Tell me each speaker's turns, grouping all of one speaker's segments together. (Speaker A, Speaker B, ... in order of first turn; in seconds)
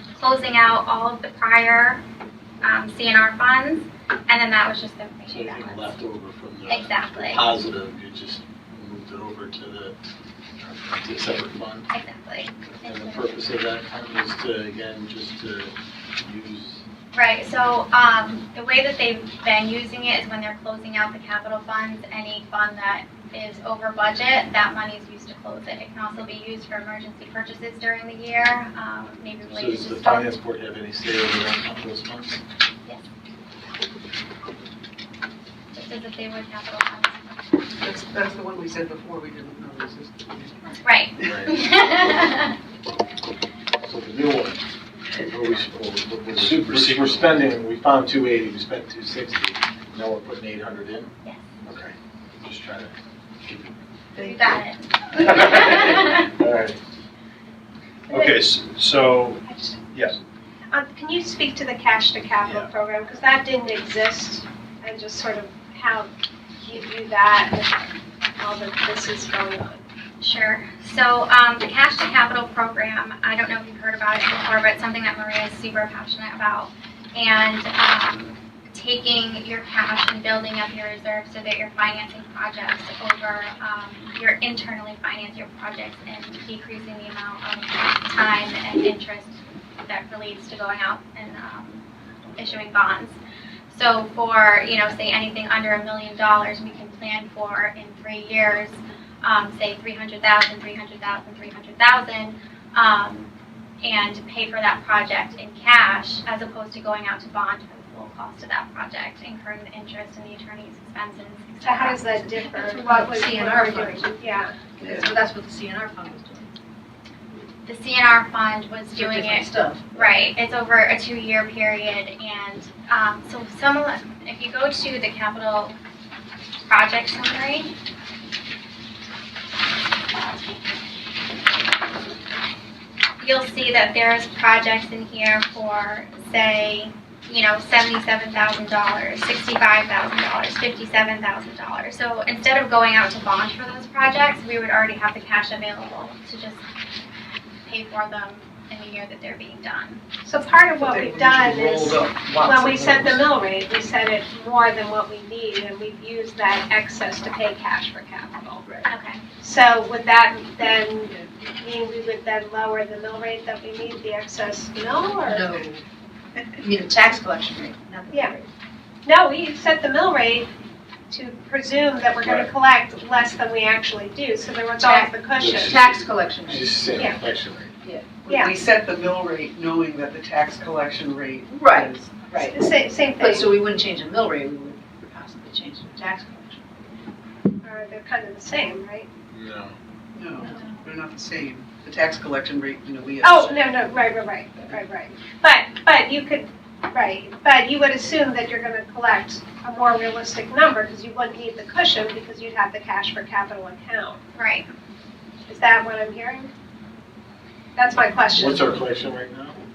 Speaker A: 0.1-2.0, 2.6-6.0, 6.7-7.5, 11.9-13.4, 17.1-30.3, 35.7-37.4, 40.8-42.6, 51.2-51.5, 54.2-56.2, 70.2-91.8, 92.4-93.2, 93.7-103.3, 103.8-112.5, 117.7-125.8, 126.7-127.7, 133.2-146.6, 147.6-150.0, 158.8-159.2, 204.3-204.7
Speaker B: 5.3-10.0, 10.6-11.9, 12.7-16.8, 29.5-32.4, 41.2-42.3, 43.8-44.6, 45.2-51.1, 51.6-53.8, 55.2-56.8, 175.4-177.7, 189.3-189.7, 208.3-209.6
Speaker C: 37.8-41.3, 54.1-54.6, 114.8-115.1, 150.8-153.3, 178.2-182.4, 190.1-193.8
Speaker D: 46.3-47.5, 58.1-60.1, 62.4-62.7, 172.2-172.5
Speaker E: 58.1-58.5, 59.4-59.8, 60.7-67.8, 68.4-69.8, 111.6-114.6, 150.2-158.6, 159.4-165.6, 168.1-168.4, 169.0-170.5, 171.1-175.8, 178.3-178.6, 182.4-183.5, 187.6-189.1, 193.2-204.2, 205.5-206.5, 207.8-208.8
Speaker F: 112.5-114.1, 114.8-116.5, 118.9-120.1, 165.2-165.8, 166.6-168.5, 174.8-176.8, 177.8-178.2, 181.5-182.6, 183.2-186.6, 190.5-190.7